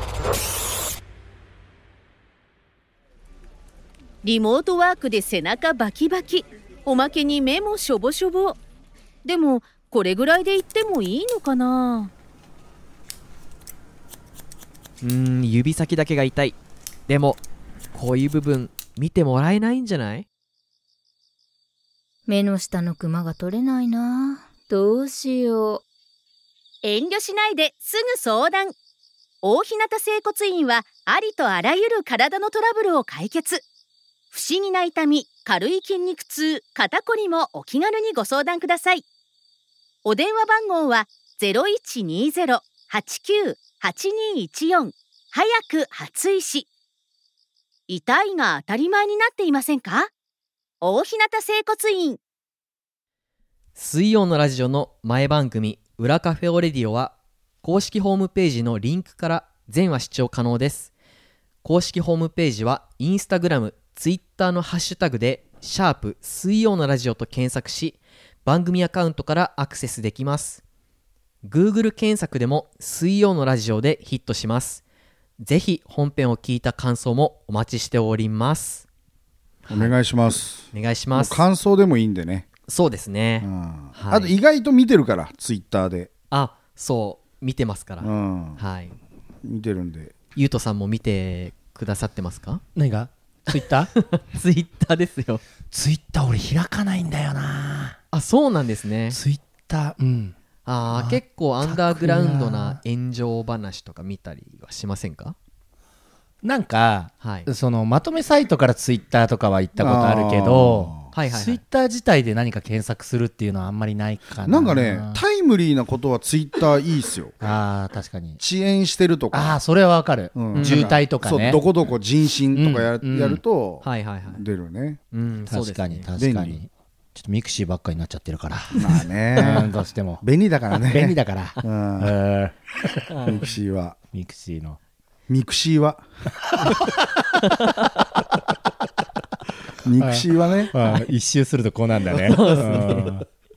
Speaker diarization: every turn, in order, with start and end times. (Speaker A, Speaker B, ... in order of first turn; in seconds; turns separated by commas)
Speaker A: 4.2-8.6, Speaker A: 9.2-12.1, Speaker B: 15.0-16.6, Speaker B: 17.1-17.4, Speaker B: 17.9-20.3, Speaker C: 22.3-25.8, Speaker A: 26.8-28.8, Speaker A: 29.4-33.6, Speaker A: 34.3-39.0, Speaker A: 40.0-46.7, Speaker A: 47.9-50.1, Speaker A: 50.8-52.2, Speaker B: 53.8-60.9, Speaker B: 61.6-70.6, Speaker B: 71.4-74.8, Speaker B: 75.4-78.9, Speaker B: 79.7-79.9, Speaker D: 79.7-82.5, Speaker B: 80.7-81.4, Speaker B: 82.7-84.3, Speaker D: 83.4-86.1, Speaker B: 86.3-89.0, Speaker D: 88.0-88.6, Speaker D: 89.4-90.1, Speaker B: 90.3-92.6, Speaker E: 92.8-93.9, Speaker B: 93.5-95.4, Speaker E: 95.7-98.0, Speaker B: 98.1-99.2, Speaker E: 99.1-100.3, Speaker B: 100.7-105.4, Speaker E: 100.9-102.8, Speaker E: 106.4-115.2, Speaker B: 107.2-107.5, Speaker D: 109.8-111.1, Speaker B: 111.1-111.6, Speaker D: 114.4-117.3, Speaker E: 117.4-118.4, Speaker D: 118.4-119.6, Speaker E: 119.3-121.6, Speaker D: 120.3-125.0, Speaker B: 120.5-120.9, Speaker E: 122.5-123.4, Speaker B: 123.8-124.4, Speaker B: 125.1-126.1, Speaker E: 125.5-130.2, Speaker D: 126.2-126.6, Speaker D: 128.7-132.2, Speaker E: 130.8-133.1, Speaker B: 133.1-133.5, Speaker D: 133.2-134.0, Speaker E: 134.1-134.8, Speaker D: 135.3-136.0, Speaker E: 136.4-137.4, Speaker D: 139.8-140.7, Speaker E: 140.0-143.2, Speaker B: 142.2-143.2